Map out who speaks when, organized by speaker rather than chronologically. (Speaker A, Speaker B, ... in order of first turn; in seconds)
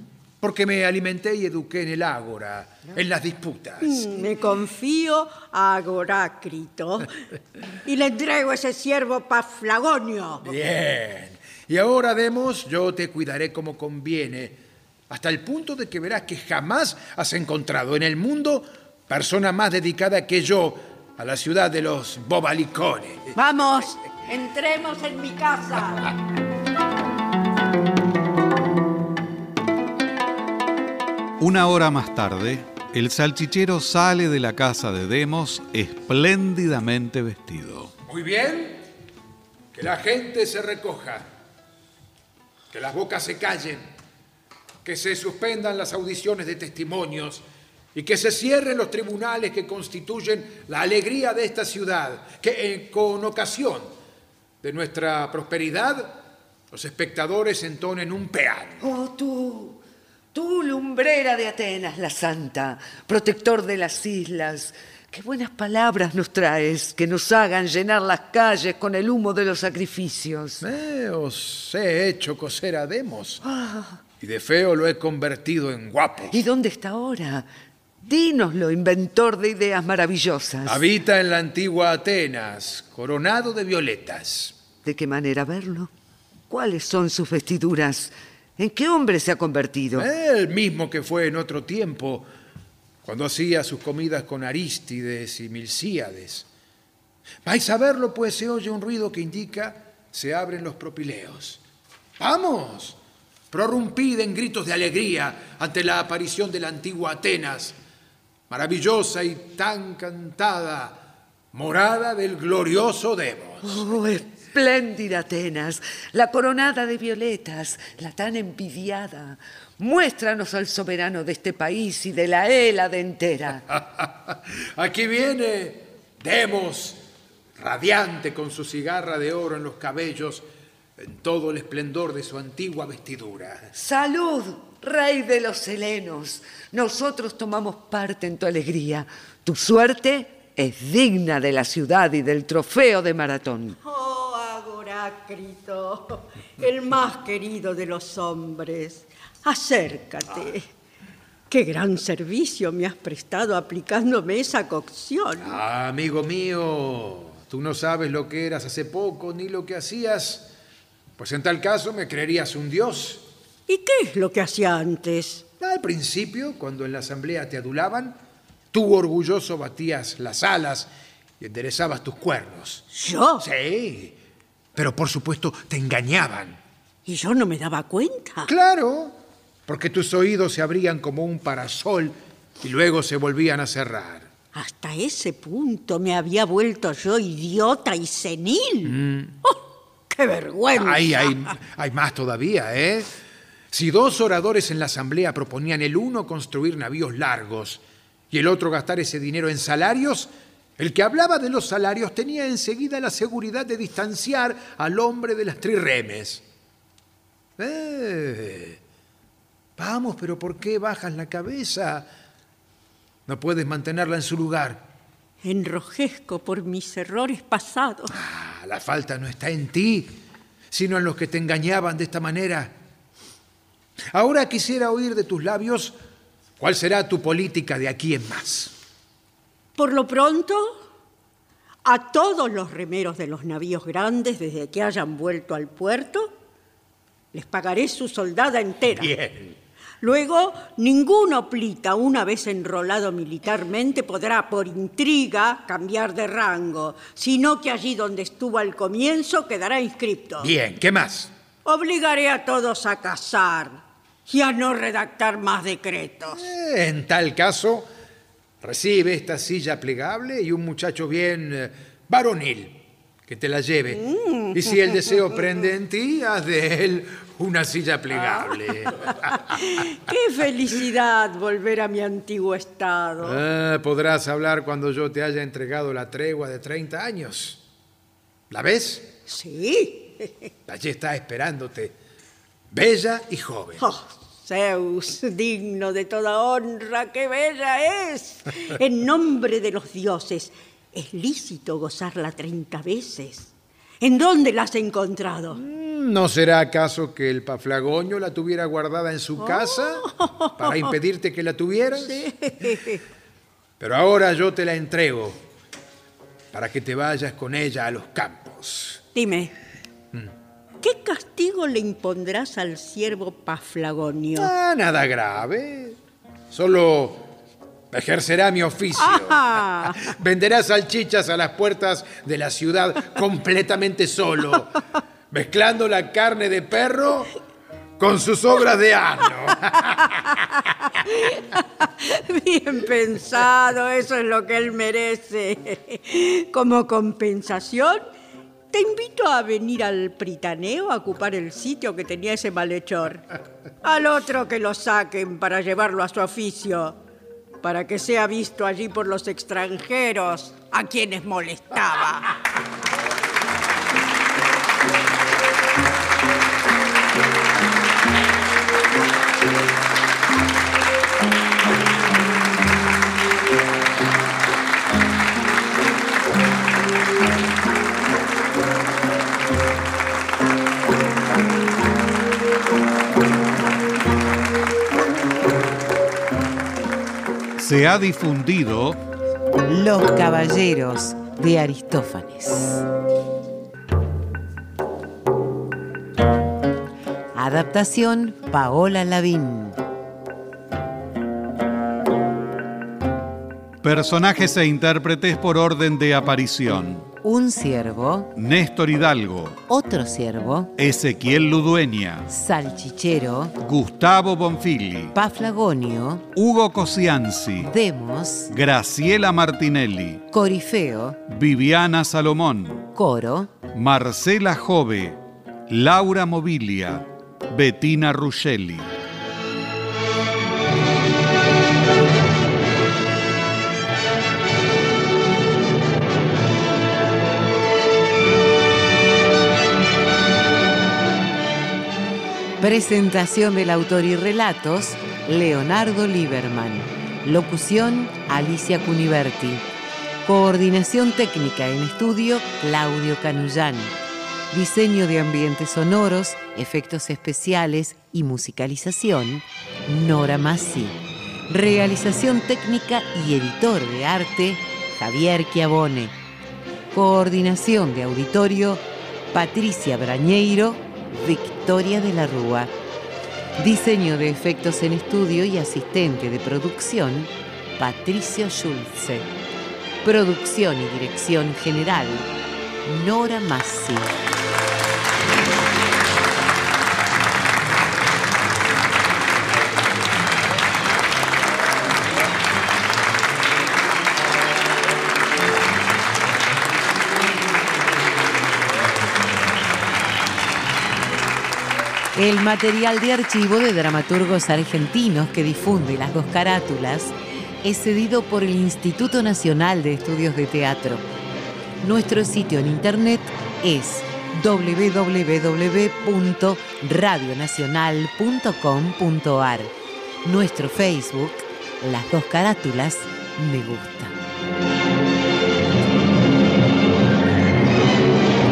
Speaker A: 0.4-4.1, 10.4-14.6, 15.1-23.4, 38.1-38.8, 39.7-41.2, 42.7-43.9, 44.8-47.4, 47.9-53.9, 54.6-56.2, 56.7-58.8, 70.6-73.4, 74.2-76.4, 80.6-84.5, 90.0-92.3, 93.0-96.5, 97.4-101.6, 102.2-103.0, 103.5-107.7, 108.5-111.0, 111.5-113.8, 123.7-127.0, 127.6-130.4, 131.0-133.7, 155.4-160.5, 161.2-163.2, 165.6-168.2, 168.7-170.9, 171.4-172.8, 173.4-174.2, 174.7-176.6, 178.4-179.2, 179.7-184.3, 188.8-189.3, 190.7-193.1, 193.7-206.4, 207.6-208.8, 209.8-212.1, 213.3-214.9, 218.1-220.1, 220.7-222.7, 224.1-225.9, 226.6-228.7, 238.9-239.6, 250.4-251.3, 256.3-257.9, 258.6-264.0, 264.5-269.4, 273.2-277.6, 278.5-279.1, 280.7-281.9, 282.7-283.8, 295.5-300.1, 300.6-302.3, 303.8-305.4, 306.5-309.0, 314.4-316.0, 316.5-317.2, 317.9-324.8, 325.3-327.3, 328.0-330.1
Speaker B: 3.8-7.1, 7.8-10.5, 23.3-26.1, 143.8-150.7, 151.5-155.6, 163.7-165.4, 172.9-173.5, 177.1-178.5, 184.5-191.5, 215.4-218.1, 229.8-230.8, 231.8-236.3, 237.3-239.2, 240.0-250.5, 251.6-256.4, 263.9-265.2, 268.1-273.4, 279.3-280.5, 283.8-295.6, 299.4-301.0, 301.9-303.0, 309.1-309.5, 310.8-314.5, 319.0-320.1, 331.0-338.0, 338.7-343.2, 343.8-347.0, 347.6-352.3
Speaker C: 31.4-37.9, 377.6-379.0, 393.8-397.0, 398.3-399.6, 400.8-402.3, 403.6-405.1, 406.3-407.7, 408.5-410.2, 411.3-412.9, 413.7-418.9
Speaker D: 58.8-59.8, 60.3-70.6, 73.4-74.0, 76.3-77.5, 78.0-80.8, 84.8-85.9, 86.5-90.1, 113.6-123.6, 133.7-143.8
Speaker E: 379.6-382.8, 387.3-389.8, 397.2-398.3, 399.7-400.7, 402.3-403.5, 405.1-406.2, 407.6-408.5, 410.3-411.2, 412.9-413.5, 432.6-439.6, 440.2-443.9, 444.5-451.0, 451.5-456.1, 456.9-462.7, 463.6-469.3, 470.0-472.3, 472.8-474.1, 492.1-501.0, 501.8-509.7, 510.2-514.1